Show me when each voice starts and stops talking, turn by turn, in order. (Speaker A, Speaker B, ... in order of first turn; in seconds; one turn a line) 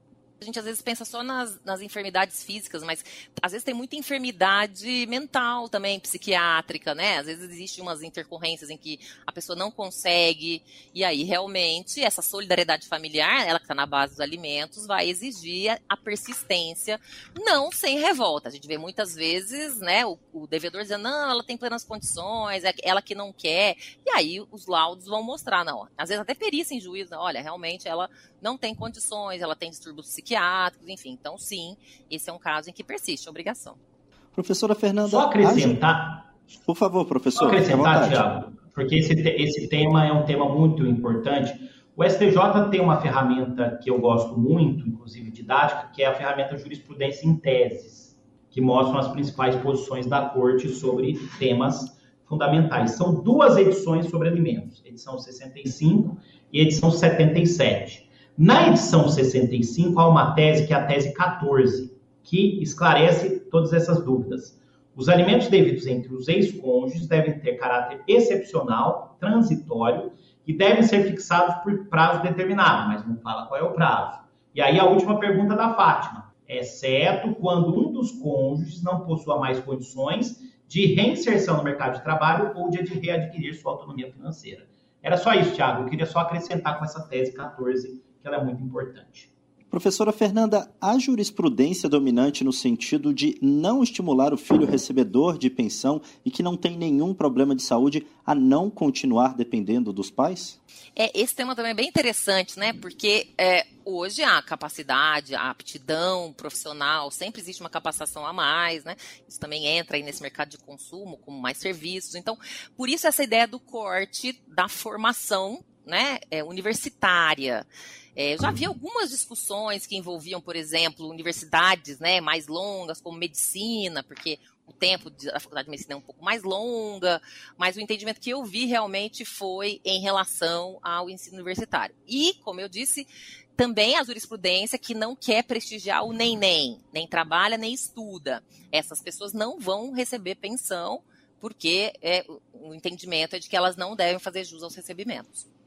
Speaker A: 0.4-33.8
Speaker B: 34.3-35.8
Speaker C: 35.0-36.3
Speaker B: 36.6-38.2
Speaker C: 37.4-89.3
Speaker B: 89.7-100.6
Speaker A: 101.0-145.5